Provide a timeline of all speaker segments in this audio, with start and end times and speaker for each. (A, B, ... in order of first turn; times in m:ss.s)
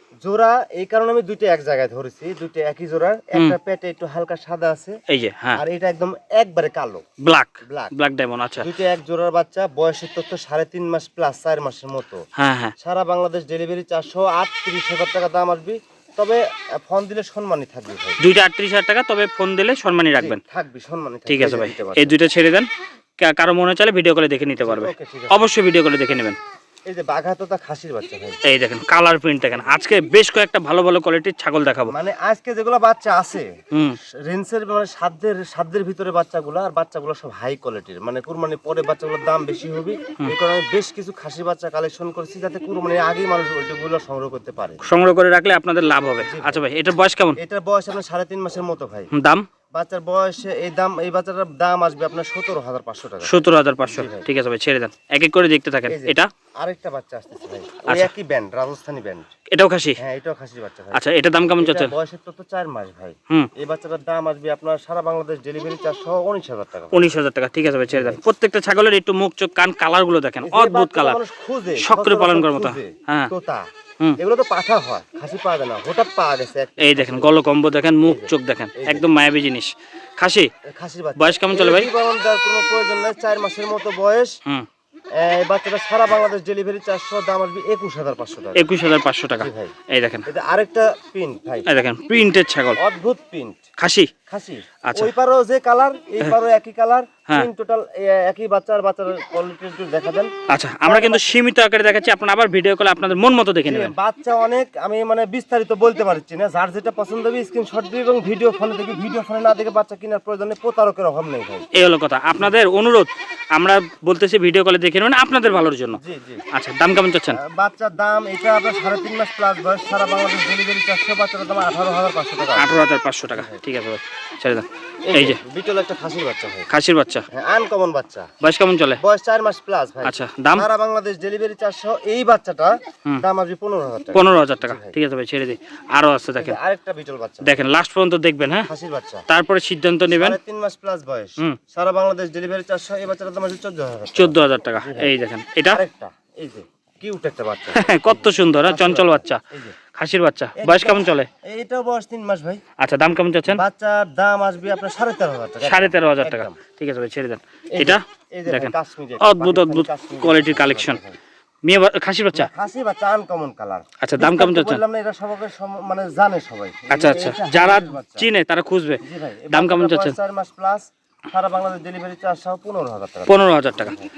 0:00.2-0:05.0 A
0:05.1-0:05.6 B
0:05.6-0:07.0 A
0:07.2-0:08.7 B
0:07.7-0:07.9 A
0:08.6-0:12.2 A
0:12.4-0:12.7 B
0:12.8-0:18.2 A
0:18.2-0:20.4 B
0:20.1-0:22.2 A
0:21.3-0:22.7 B
0:23.2-0:26.4 B
0:24.6-0:25.5 A
0:26.9-0:28.4 A
0:28.4-0:31.9 B
0:31.9-0:33.5 A
0:34.2-0:44.8 A
0:44.8-0:47.4 B
0:46.2-0:46.6 A
0:47.4-0:49.1 A
0:49.1-0:49.4 B
0:49.7-0:54.3 A
0:53.2-0:56.3 B
0:55.9-0:59.3 A
0:59.5-1:00.0 B
1:00.0-1:01.0 A
1:00.9-1:01.9 B
1:01.5-1:07.1 A
1:06.9-1:11.2 B
1:07.9-1:08.2 A
1:10.4-1:13.7 A
1:11.8-1:13.3 B
1:14.2-1:17.3 A
1:16.8-1:20.5 B
1:18.1-1:19.1 A
1:20.6-1:24.4 A
1:21.2-1:21.9 B
1:25.2-1:28.6 A
1:28.6-1:30.2 B
1:29.4-1:29.7 A
1:30.2-1:31.7 A
1:31.7-1:32.8 B
1:32.8-1:33.6 A
1:33.8-1:34.1 B
1:34.3-1:40.3 A
1:34.8-1:35.1 B
1:40.5-1:43.9 B
1:40.8-1:41.3 A
1:43.6-1:51.7 A
1:51.7-1:56.0 B
1:56.0-1:56.4 A
1:56.5-1:57.4 B
1:57.3-2:03.6 A
2:02.6-2:05.4 B
2:05.1-2:06.7 A
2:06.7-2:07.3 B
2:07.3-2:08.3 A
2:08.4-2:09.0 B
2:09.0-2:15.0 A
2:10.0-2:10.7 B
2:14.2-2:16.6 B
2:16.4-2:17.6 A
2:17.4-2:18.7 B
2:18.7-2:19.2 A
2:19.3-2:20.4 B
2:20.1-2:25.1 A
2:24.2-2:25.8 B
2:25.7-2:29.8 A
2:27.7-2:29.4 B
2:29.9-2:31.3 B
2:30.6-2:32.6 A
2:32.8-2:33.6 B
2:33.5-2:36.6 A
2:35.6-2:41.0 B
2:37.8-2:41.2 A
2:41.6-2:42.5 B
2:42.3-2:48.3 A
2:44.0-2:44.8 B
2:46.9-2:50.2 B
2:49.0-2:54.1 A
2:53.3-2:54.0 B